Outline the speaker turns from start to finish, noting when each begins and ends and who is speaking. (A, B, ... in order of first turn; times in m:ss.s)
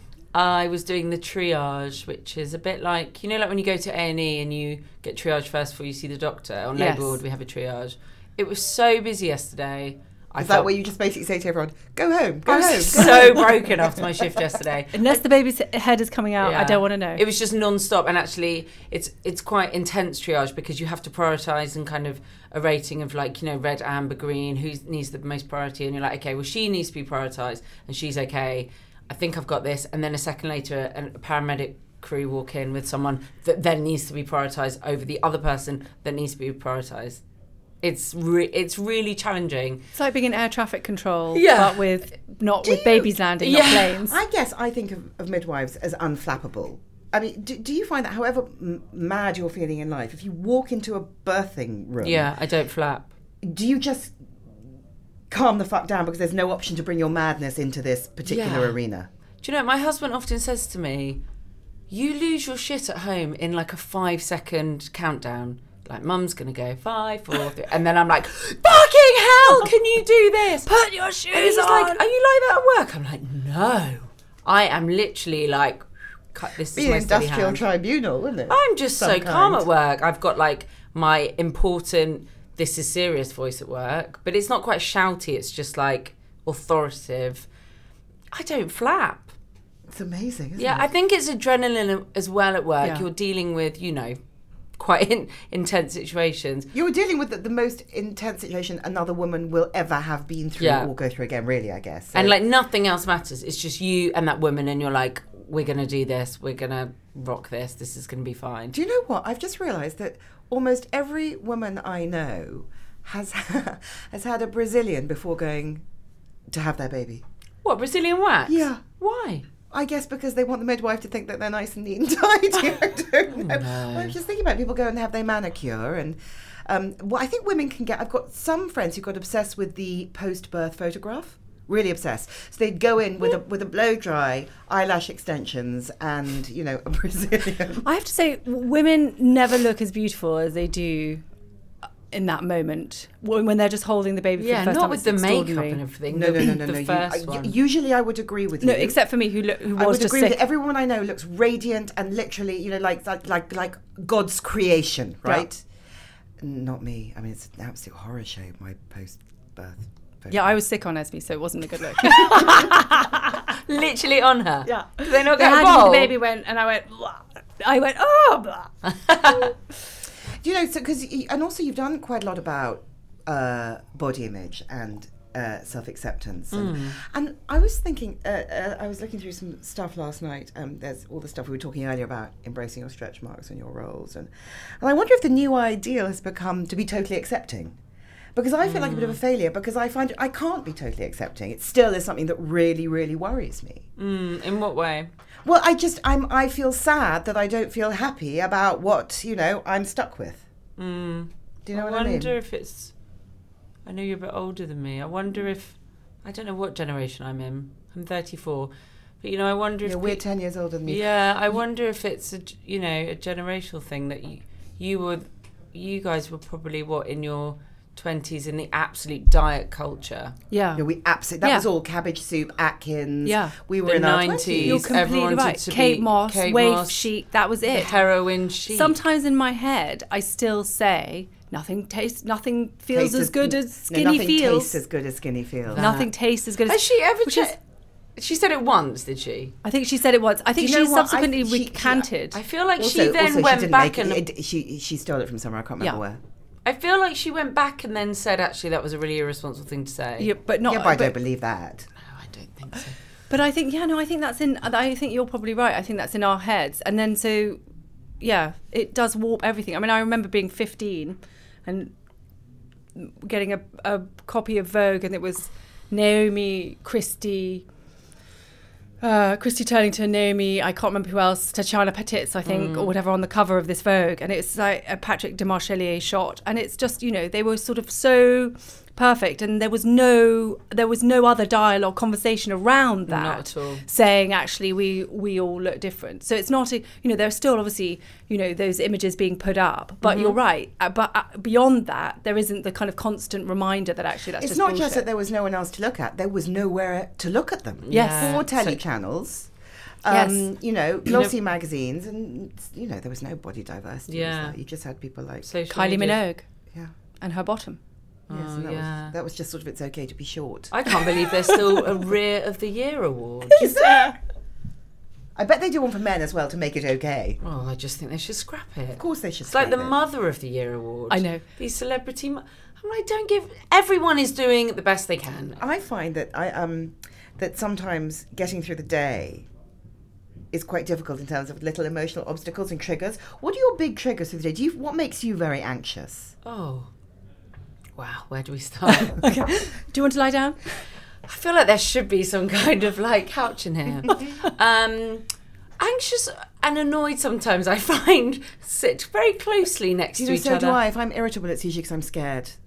0:00.3-0:10.7 A
0:06.8-0:07.2 B
0:10.4-0:14.0 C
0:12.5-0:13.6 B
0:12.8-0:15.2 A
0:14.9-0:17.2 B
0:16.4-0:37.2 A
0:37.8-0:39.8 A
0:39.9-0:44.2 B
0:41.3-0:41.9 A
0:43.4-0:44.0 A
0:44.0-0:52.3 C
0:52.0-0:53.1 A
0:53.4-0:54.2 C
0:55.3-0:59.1 C
0:58.2-0:58.8 A
0:59.4-1:01.2 A
1:01.9-1:10.7 A
1:10.6-1:12.0 B
1:11.3-1:17.6 A
1:16.7-1:19.6 C
1:18.5-1:27.5 A
1:28.3-1:29.3 A
1:29.9-1:30.9 C
1:30.6-1:34.2 A
1:34.8-1:36.7 A
1:36.7-1:42.4 C
1:40.6-1:40.9 A
1:42.1-1:48.8 A
1:48.7-1:55.8 C
1:56.5-1:57.2 C
1:57.6-1:59.4 A
1:58.5-1:58.8 C
1:59.7-2:17.8 C
2:03.3-2:04.2 A
2:17.8-2:21.2 B
2:22.1-2:25.8 B
2:24.4-2:27.5 A
2:26.1-2:29.0 C
2:28.6-2:30.4 B
2:29.8-2:35.6 C
2:36.4-2:40.4 C
2:40.3-2:43.5 B
2:42.3-2:42.6 A
2:43.5-2:46.1 A
2:44.7-2:48.7 B
2:48.9-2:49.5 A
2:50.4-3:07.8 C
2:56.5-2:57.0 A
3:08.4-3:13.8 C
3:08.6-3:09.2 A
3:14.0-3:15.1 A
3:15.4-3:20.4 C
3:20.8-3:22.9 A
3:21.7-3:22.3 C
3:23.9-3:30.2 A
3:29.8-3:31.1 C
3:30.9-3:40.4 A
3:40.5-3:40.9 B
3:40.8-3:44.9 C
3:43.2-3:43.6 B
3:43.8-3:47.1 A
3:44.6-3:47.9 B
3:47.7-3:49.0 A
3:48.7-3:54.8 B
3:52.9-3:55.9 C
3:55.7-3:56.1 A
3:55.8-3:57.5 B
3:56.7-3:57.6 A
3:58.2-3:59.6 A
3:59.6-4:02.4 B
4:00.6-4:02.1 C
4:02.3-4:04.2 A
4:02.8-4:06.2 C
4:06.6-4:10.3 A
4:10.2-4:11.2 B
4:10.6-4:11.9 C
4:12.0-4:13.0 A
4:13.3-4:17.6 B
4:18.2-4:21.9 B
4:23.0-4:27.7 B
4:29.0-4:55.1 B
4:32.5-4:32.9 A
4:43.1-4:43.8 A
4:50.0-4:50.4 A
4:54.4-4:59.5 C
4:57.9-4:58.5 A
4:57.9-4:58.8 B
5:00.0-5:05.5 C
5:00.1-5:00.4 B
5:01.1-5:01.3 A
5:04.1-5:04.6 A
5:05.4-5:06.2 A
5:05.7-5:06.4 B
5:07.2-5:07.8 B
5:08.3-5:09.1 A
5:08.3-5:10.9 C
5:10.7-5:13.6 A
5:13.5-5:14.1 B
5:13.6-5:14.2 C
5:15.4-5:17.4 C
5:17.4-5:25.6 A
5:19.0-5:20.0 C
5:21.1-5:21.4 B
5:25.5-5:29.5 C
5:30.5-5:36.3 C
5:36.4-5:36.9 A
5:38.0-5:39.2 A
5:38.9-5:40.7 B
5:41.3-5:45.3 A
5:45.8-5:50.8 A
5:50.2-5:52.6 C